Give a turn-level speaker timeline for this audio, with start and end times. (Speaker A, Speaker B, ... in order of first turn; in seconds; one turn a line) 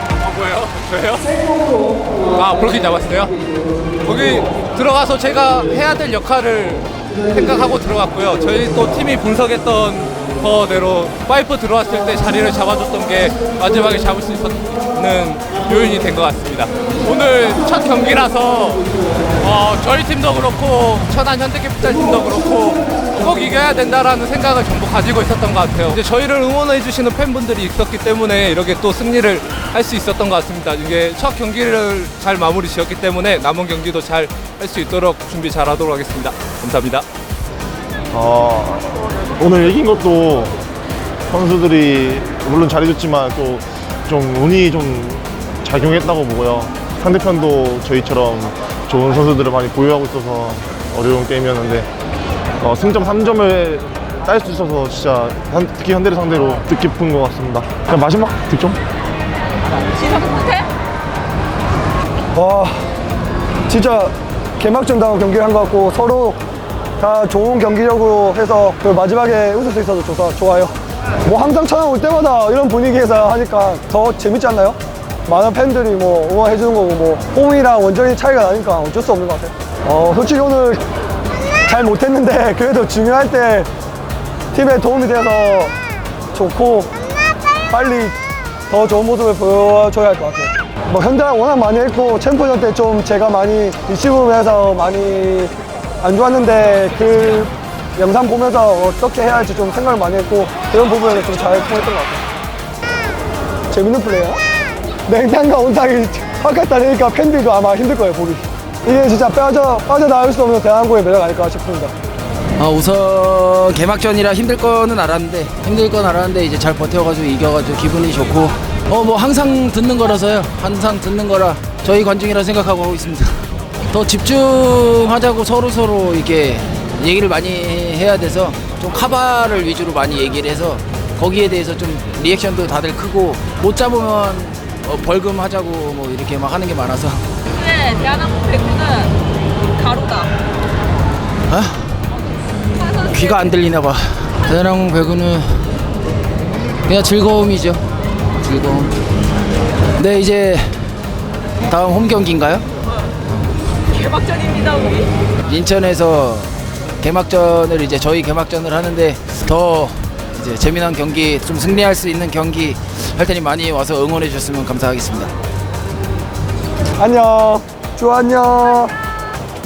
Speaker A: 0.2-3.4
Speaker A: 4.0-37.0
Speaker B: 38.1-40.5
Speaker B: 41.3-51.9
Speaker B: 52.6-58.8
Speaker C: 59.9-60.7
Speaker D: 62.3-62.8
Speaker D: 63.7-66.4
Speaker D: 67.0-80.8
Speaker D: 81.7-83.7
Speaker D: 84.5-85.7
Speaker D: 86.3-86.9
Speaker D: 87.7-88.1
Speaker D: 88.7-102.2
Speaker D: 103.7-104.4
Speaker D: 105.0-111.9
Speaker E: 112.6-137.3
Speaker C: 137.6-139.2
Speaker C: 139.8-140.3
Speaker E: 141.5-142.0
Speaker E: 142.8-145.7
Speaker E: 146.8-149.0
Speaker E: 149.9-150.9
Speaker E: 151.6-152.7
Speaker C: 153.9-155.1
Speaker E: 155.4-165.3
Speaker D: 167.0-168.9